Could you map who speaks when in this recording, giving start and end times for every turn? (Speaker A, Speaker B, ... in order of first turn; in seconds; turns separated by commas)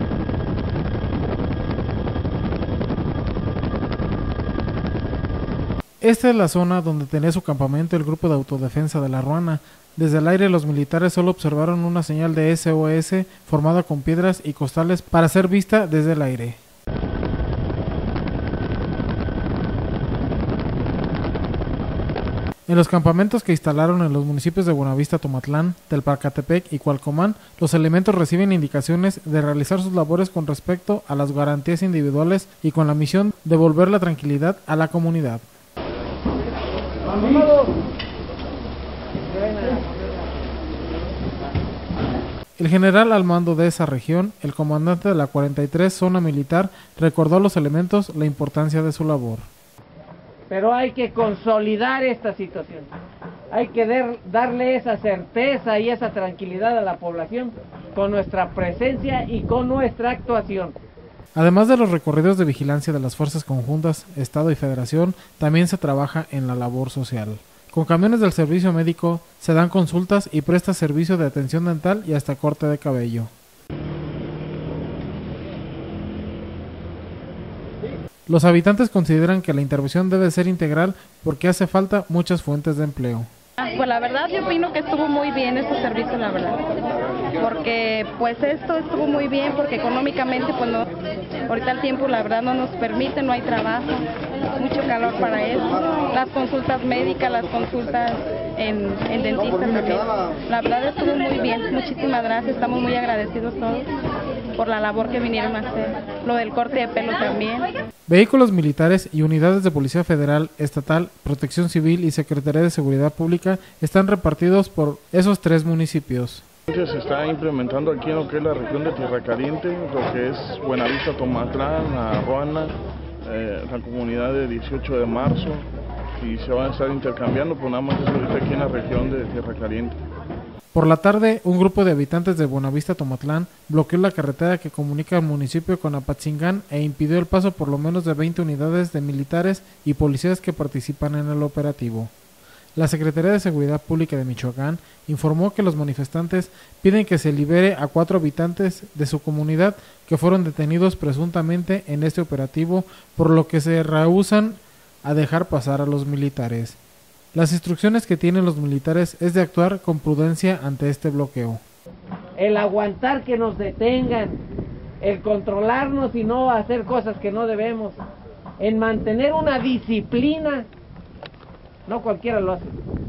Speaker A: 6.0-16.6, Speaker A: 22.7-35.4, Speaker B: 37.1-37.7, Speaker B: 39.2-40.1, Speaker A: 42.6-49.5, Speaker B: 50.5-52.9, Speaker B: 53.5-60.8, Speaker A: 61.4-73.3, Speaker A: 78.3-83.3, Speaker C: 83.6-86.7, Speaker C: 87.4-90.9, Speaker C: 91.5-94.0, Speaker C: 94.6-103.9, Speaker C: 104.5-107.7, Speaker A: 108.1-116.5, Speaker D: 116.7-130.0, Speaker A: 130.7-142.1, Speaker A: 142.8-156.8, Speaker A: 157.3-161.6, Speaker B: 162.4-164.4, Speaker B: 165.0-168.0, Speaker B: 168.6-170.7, Speaker B: 171.9-172.7